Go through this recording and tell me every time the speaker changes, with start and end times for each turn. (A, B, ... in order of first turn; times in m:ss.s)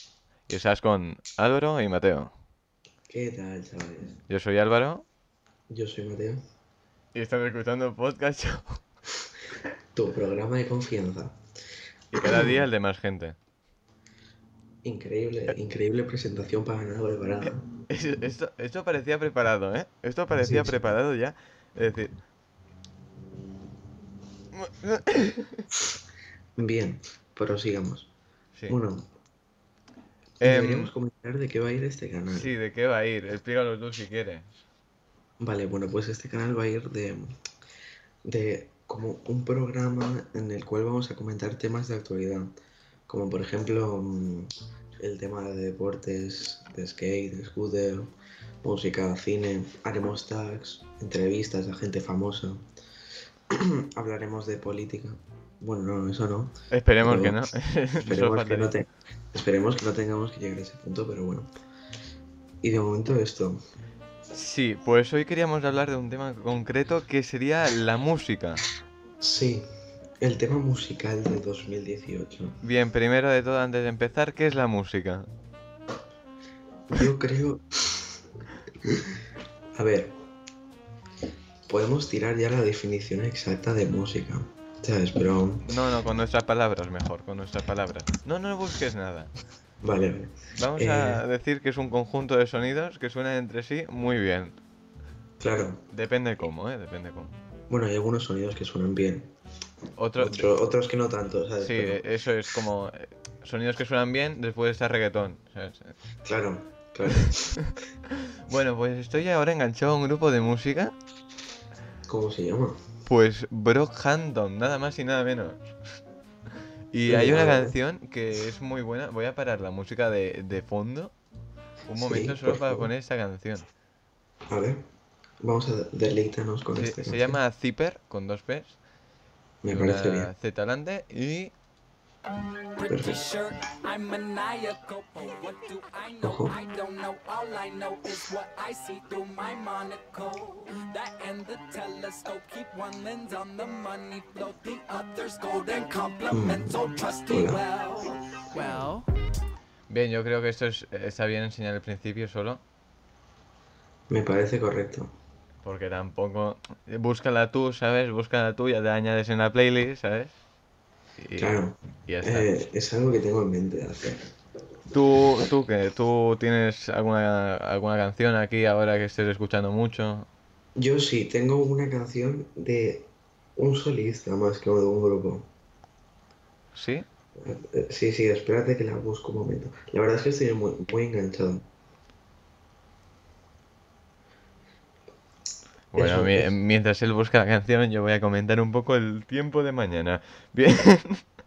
0:00.5-0:02.3 A
0:03.1-0:04.2 B
0:04.3-0:05.1 A
0:05.7-0:06.4 B
0:07.1-0:08.8 A
0:09.9-0:11.4 B
0:12.1-0:13.4 A
0:12.2-0:12.6 B
0:14.8-0:17.6 B
0:17.9-0:22.2 A
0:20.4-0:20.8 B
0:24.5-0:25.7 A
0:26.6-0:28.1 B
0:28.7-0:29.1 B
0:30.4-0:30.9 A
0:30.4-0:32.5 B
0:32.3-0:34.5 A
0:35.4-0:37.4 B
0:38.2-0:42.5 B
0:43.1-0:52.7 B
0:53.5-0:57.5 B
0:56.7-0:58.7 A
0:58.0-1:01.5 B
1:02.6-1:03.6 B
1:04.3-1:08.6 A
1:09.2-1:09.7 B
1:10.2-1:12.6 B
1:12.6-1:15.3 A
1:16.9-1:18.1 B
1:18.9-1:19.2 B
1:19.8-1:20.2 B
1:21.7-1:25.7 B
1:25.7-1:29.3 A
1:29.8-1:31.2 B
1:30.6-1:34.6 A
1:35.4-1:35.8 B
1:35.9-1:37.4 A
1:37.7-1:39.3 B
1:40.0-1:40.5 A
1:40.2-1:42.0 B
1:41.6-1:45.9 A
1:46.2-1:47.5 B
1:47.6-1:51.0 A
1:52.1-1:52.8 B
1:53.1-1:55.6 A
1:56.9-2:01.2 A
1:57.1-1:57.8 B
2:01.9-2:03.7 A
2:01.9-2:02.9 B
2:04.5-2:04.8 B
2:05.4-2:07.4 B
2:06.8-2:08.8 A
2:09.6-2:10.3 B
2:09.7-2:11.5 A
2:12.7-2:29.1 C
2:12.9-2:13.2 B
2:16.2-2:16.5 B
2:26.3-2:26.8 B
2:27.3-2:27.6 B
2:29.9-2:32.6 A
2:34.1-2:35.1 B
2:35.6-2:40.4 A
2:41.2-2:42.5 A
2:41.4-2:44.2 B
2:44.9-2:50.3 A
2:50.8-2:55.5 B
2:56.8-2:57.1 A
2:57.4-3:01.7 B
3:05.9-3:11.2 A
3:05.9-3:06.5 B